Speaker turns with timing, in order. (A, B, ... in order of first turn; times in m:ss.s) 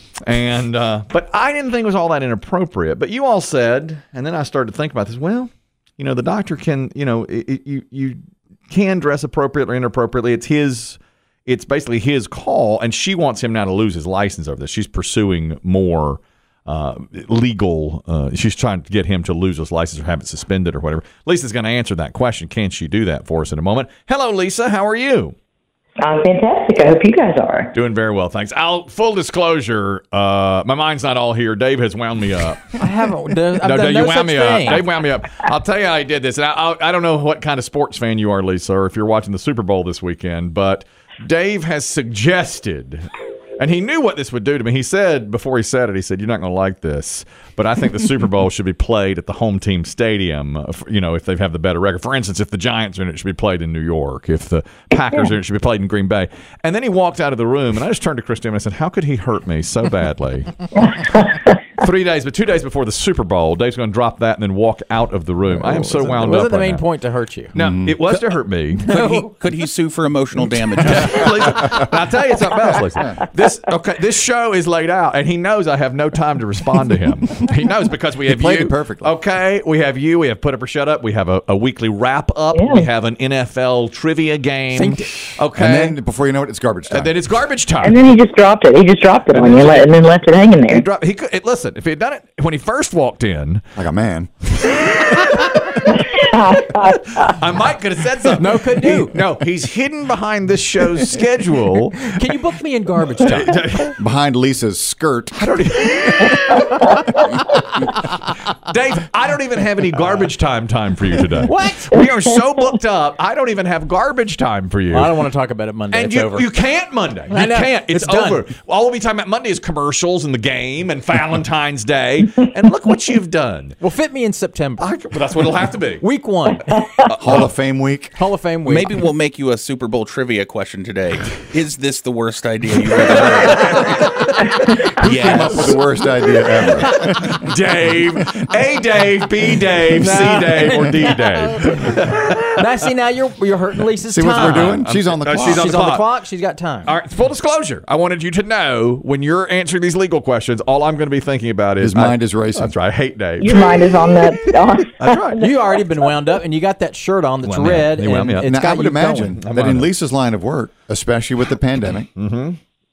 0:00.2-0:25.4 A
0:26.0-0:27.7 B
0:27.7-0:32.8 A
0:32.8-0:34.8 C
0:33.6-1:00.5 A
1:00.9-1:01.4 B
1:01.8-1:06.8 A
1:05.6-1:07.5 C
1:07.5-1:08.9 A
1:07.6-1:08.0 D
1:08.8-1:09.3 C
1:08.9-1:11.3 E
1:10.8-1:26.0 A
1:18.3-1:19.1 D
1:22.5-1:22.9 B
1:24.7-1:25.4 C
1:25.5-1:27.2 D
1:26.9-1:28.0 A
1:27.8-1:30.8 B
1:29.3-1:29.9 A
1:30.7-1:33.6 A
1:33.8-1:34.3 D
1:34.6-1:36.0 A
1:35.8-1:37.3 B
1:36.7-1:42.3 A
1:38.4-1:39.2 C
1:42.0-1:43.6 C
1:43.2-1:44.0 A
1:44.0-1:45.4 D
1:45.3-1:46.9 A
1:48.5-1:55.1 A
1:51.4-1:52.0 C
1:54.9-1:56.5 C
1:55.9-2:03.8 A
1:57.3-1:58.4 C
2:03.8-2:05.4 C
2:04.8-2:06.0 A
2:06.0-2:06.8 C
2:07.0-2:07.5 A
2:07.2-2:08.2 D
2:08.1-2:09.1 C
2:08.6-2:14.0 E
2:14.0-2:14.4 A
2:14.7-2:15.8 C
2:15.0-2:15.8 E
2:15.1-2:17.3 D
2:17.0-2:22.6 A
2:19.9-2:21.8 C
2:22.6-2:27.0 C
2:24.1-2:25.7 D
2:24.4-2:26.1 A
2:26.8-2:33.7 A
2:31.8-2:32.7 D
2:33.4-2:35.7 B
2:35.0-2:35.4 A
2:35.4-2:39.4 C
2:37.4-2:38.5 A
2:38.4-2:42.1 D
2:39.4-2:39.9 A
2:42.1-2:42.6 A